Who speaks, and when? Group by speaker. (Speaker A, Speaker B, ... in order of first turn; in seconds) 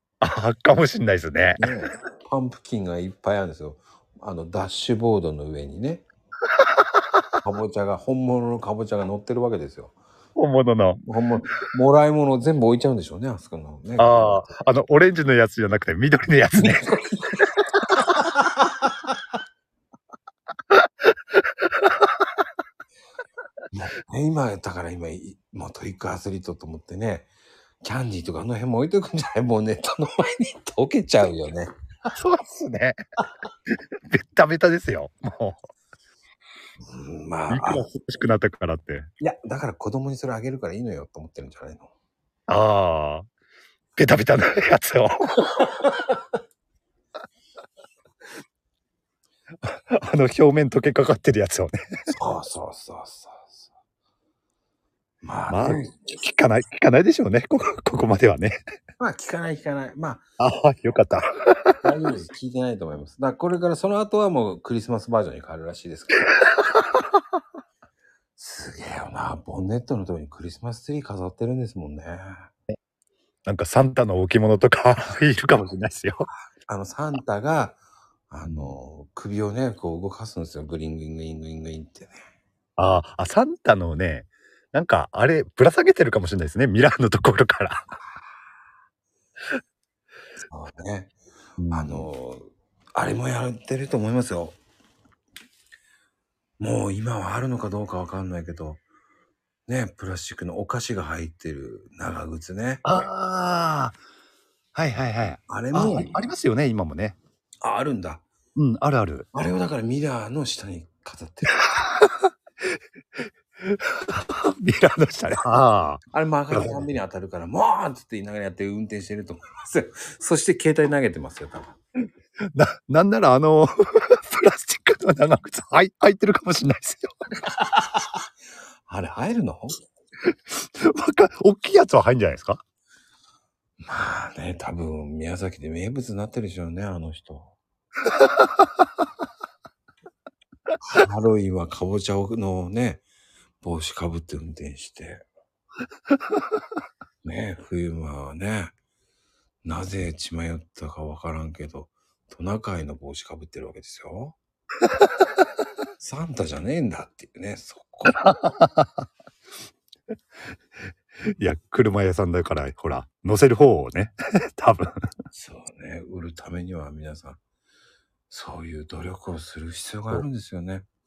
Speaker A: 0.2-1.7, 6.6-7.2, 10.3-11.0, 14.0-16.9, 21.8-22.1, 32.1-33.0, 33.7-35.6, 37.5-39.1, 42.5-43.2, 44.0-45.4, 49.6-51.7, 55.5-58.6, 60.4-61.8, 66.4-67.0, 73.5-76.3, 78.4-78.7, 82.8-87.8, 91.6-92.1, 102.8-104.0, 104.7-107.2, 108.5-109.3, 111.5-112.3, 113.6-116.9, 122.5-127.1, 130.8-132.6, 138.2-138.7, 158.2-159.0, 161.4-164.9
Speaker B: 1.6-6.0, 7.4-9.9, 11.0-14.5, 16.6-17.5, 18.0-18.5, 23.7-27.3, 27.8-31.7, 36.8-37.8, 39.2-41.9, 45.5-46.0, 52.1-53.7, 55.2-55.9, 59.0-60.2, 61.8-66.3, 68.4-72.5, 76.7-82.2, 90.5-91.1, 91.7-94.6, 96.6-98.8, 99.7-102.8, 105.5-106.2, 107.6-108.2, 109.3-111.6, 116.1-121.8, 127.5-128.2, 128.9-129.8, 133.8-137.6, 140.8-143.0, 143.6-145.2, 147.2-148.7, 149.6-154.3, 156.0-158.3, 165.3-167.4, 168.3-170.8